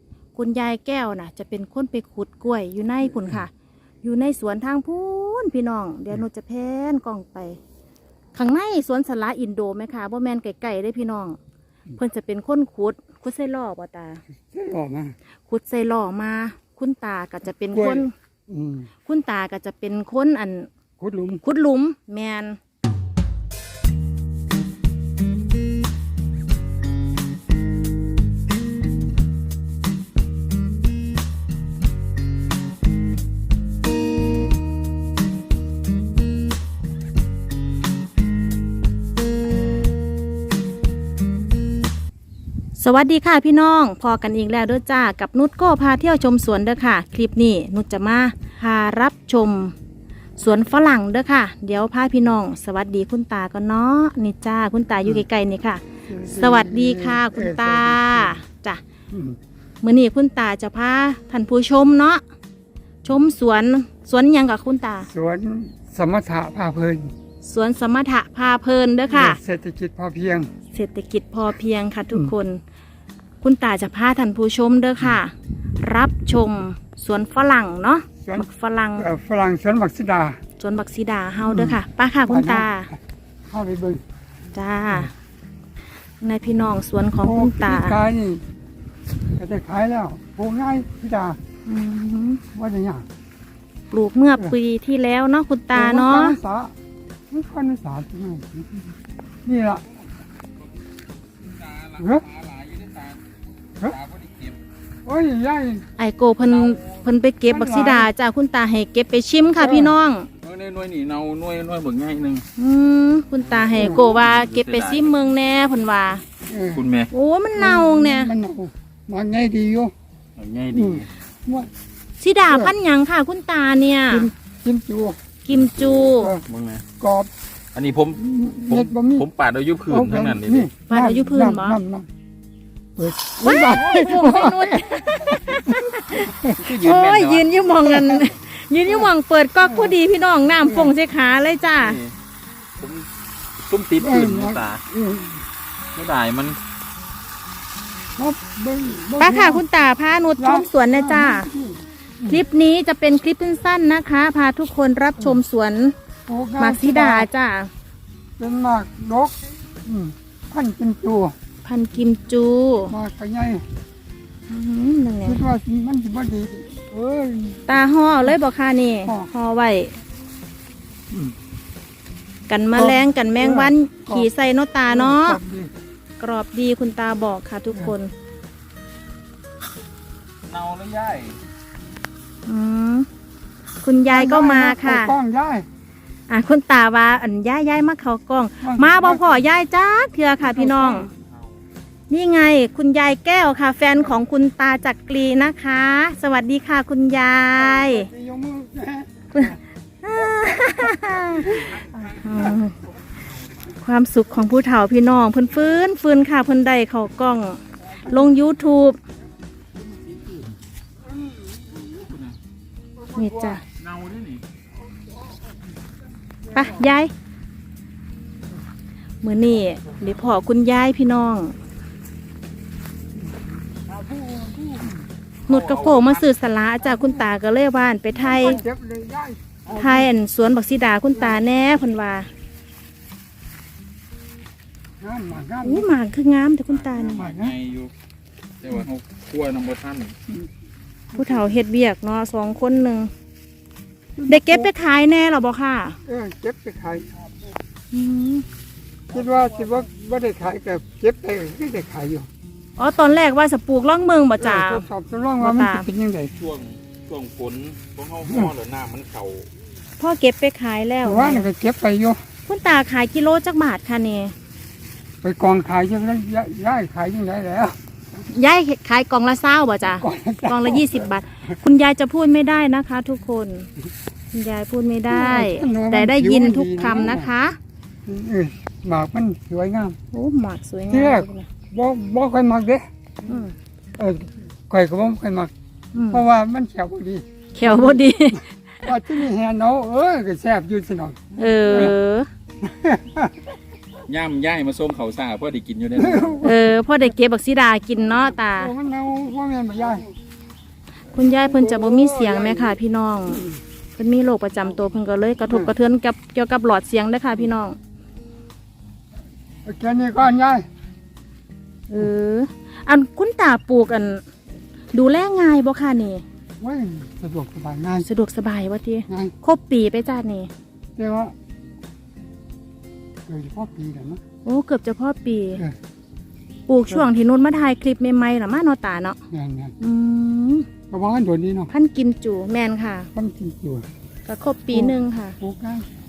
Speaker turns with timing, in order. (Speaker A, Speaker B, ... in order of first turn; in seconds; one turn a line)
Speaker A: 0.3-3.5
Speaker A: 4.0-7.6
Speaker A: 8.3-11.4
Speaker A: 11.9-14.2
Speaker B: 14.5-15.1
Speaker A: 15.5-18.1
Speaker B: 17.7-18.9
Speaker A: 19.0-20.7
Speaker B: 21.0-21.4
Speaker A: 21.4-22.6
Speaker A: 42.8-49.7
Speaker A: 50.4-58.8
Speaker B: 56.1-58.4
Speaker B: 59.1-59.4
Speaker A: 59.8-62.2
Speaker A: 63.0-65.1
Speaker B: 65.1-67.1
Speaker A: 67.4-69.4
Speaker B: 69.1-70.5
Speaker A: 70.7-72.6
Speaker A: 73.4-79.0
Speaker B: 78.2-80.4
Speaker A: 80.6-82.9
Speaker B: 81.5-84.0
Speaker A: 84.5-85.1
Speaker A: 86.2-88.0
Speaker B: 87.2-88.4
Speaker B: 89.3-91.4
Speaker A: 91.7-92.4
Speaker B: 92.5-93.1
Speaker A: 93.9-96.4
Speaker B: 95.7-96.7
Speaker B: 97.3-98.9
Speaker B: 99.4-99.9
Speaker C: 101.4-103.2
Speaker B: 102.0-102.3
Speaker C: 103.8-104.6
Speaker B: 105.0-105.9
Speaker A: 106.0-110.3
Speaker C: 106.6-107.0
Speaker B: 107.5-108.1
Speaker B: 109.6-110.0
Speaker C: 110.4-112.4
Speaker A: 112.6-116.2
Speaker C: 113.4-115.1
Speaker B: 113.8-114.0
Speaker B: 116.4-116.8
Speaker C: 116.7-117.1
Speaker A: 117.1-118.3
Speaker B: 117.6-119.9
Speaker C: 120.4-121.1
Speaker B: 120.7-121.7
Speaker A: 122.2-124.3
Speaker B: 122.5-122.7
Speaker B: 124.1-126.5
Speaker A: 125.5-126.3
Speaker C: 126.5-126.8
Speaker B: 127.0-127.3
Speaker C: 127.7-130.7
Speaker B: 128.2-129.3
Speaker B: 129.8-132.1
Speaker A: 130.9-131.8
Speaker B: 133.0-136.7
Speaker A: 133.4-142.0
Speaker C: 136.6-137.6
Speaker B: 137.8-138.3
Speaker B: 139.6-140.0
Speaker B: 140.6-140.9
Speaker C: 141.8-142.1
Speaker C: 142.8-143.1
Speaker C: 143.6-144.8
Speaker B: 144.0-145.4
Speaker C: 145.9-146.6
Speaker B: 148.2-149.6
Speaker A: 149.2-151.5
Speaker B: 150.4-152.4
Speaker A: 152.3-155.9
Speaker B: 156.3-157.3
Speaker A: 156.6-157.7
Speaker B: 158.4-161.3
Speaker A: 161.6-162.9
Speaker B: 162.9-163.7
Speaker A: 164.5-165.4
Speaker B: 165.2-167.6
Speaker A: 167.7-170.0
Speaker B: 169.0-169.3
Speaker A: 172.5-175.4
Speaker B: 172.7-174.3
Speaker B: 174.8-175.7
Speaker A: 176.2-178.1
Speaker C: 180.4-181.4
Speaker A: 182.4-183.1
Speaker A: 183.8-185.1
Speaker B: 184.1-185.7
Speaker A: 186.3-191.1
Speaker B: 188.6-189.4
Speaker B: 190.4-191.1
Speaker A: 192.1-198.1
Speaker B: 197.5-199.6
Speaker A: 199.3-202.8
Speaker B: 200.9-202.6
Speaker A: 203.7-209.0
Speaker B: 208.0-208.3
Speaker C: 210.2-210.4
Speaker B: 211.1-212.0
Speaker C: 212.0-212.3
Speaker B: 212.9-213.6
Speaker A: 213.2-213.6
Speaker C: 213.8-214.4
Speaker B: 216.4-216.9
Speaker A: 216.5-217.1
Speaker A: 219.2-221.6
Speaker B: 223.2-225.1
Speaker A: 225.5-228.6
Speaker C: 225.5-226.2
Speaker B: 226.8-227.2
Speaker B: 228.3-230.1
Speaker A: 229.7-232.3
Speaker B: 231.1-231.4
Speaker B: 235.0-235.9
Speaker A: 235.6-237.3
Speaker C: 236.9-237.9
Speaker B: 237.0-237.6
Speaker C: 238.6-240.2
Speaker B: 241.1-241.5
Speaker A: 241.1-243.1
Speaker B: 244.2-244.7
Speaker A: 244.3-246.0
Speaker B: 246.1-247.1
Speaker A: 247.9-248.4
Speaker B: 249.1-252.3
Speaker A: 252.8-254.8
Speaker B: 254.4-256.3
Speaker A: 255.4-255.9
Speaker C: 256.3-259.5
Speaker B: 258.2-258.5
Speaker A: 260.0-261.5
Speaker B: 261.0-262.2
Speaker A: 262.5-264.3
Speaker B: 265.2-267.8
Speaker A: 268.3-273.7
Speaker B: 269.9-271.1
Speaker A: 274.3-277.6
Speaker B: 275.1-277.3
Speaker B: 278.0-280.0
Speaker A: 280.1-281.5
Speaker B: 280.9-283.3
Speaker A: 283.2-283.5
Speaker B: 283.9-285.5
Speaker A: 285.9-286.2
Speaker B: 286.1-291.9
Speaker A: 287.5-288.5
Speaker A: 291.4-292.3
Speaker B: 292.6-293.5
Speaker C: 294.1-296.5
Speaker B: 295.9-296.6
Speaker A: 296.4-298.7
Speaker B: 298.5-300.1
Speaker A: 301.1-307.8
Speaker B: 301.2-302.8
Speaker B: 303.3-303.6
Speaker B: 305.5-305.7
Speaker B: 309.6-310.7
Speaker A: 311.9-314.2
Speaker A: 314.9-316.2
Speaker B: 316.6-318.1
Speaker A: 318.0-320.5
Speaker B: 319.1-319.3
Speaker B: 320.9-321.3
Speaker B: 323.3-324.2
Speaker A: 324.4-325.6
Speaker A: 326.7-329.2
Speaker B: 329.3-329.8
Speaker A: 329.8-330.7
Speaker B: 330.9-331.7
Speaker A: 331.7-333.1
Speaker B: 333.1-333.9
Speaker A: 334.2-335.4
Speaker B: 334.7-335.9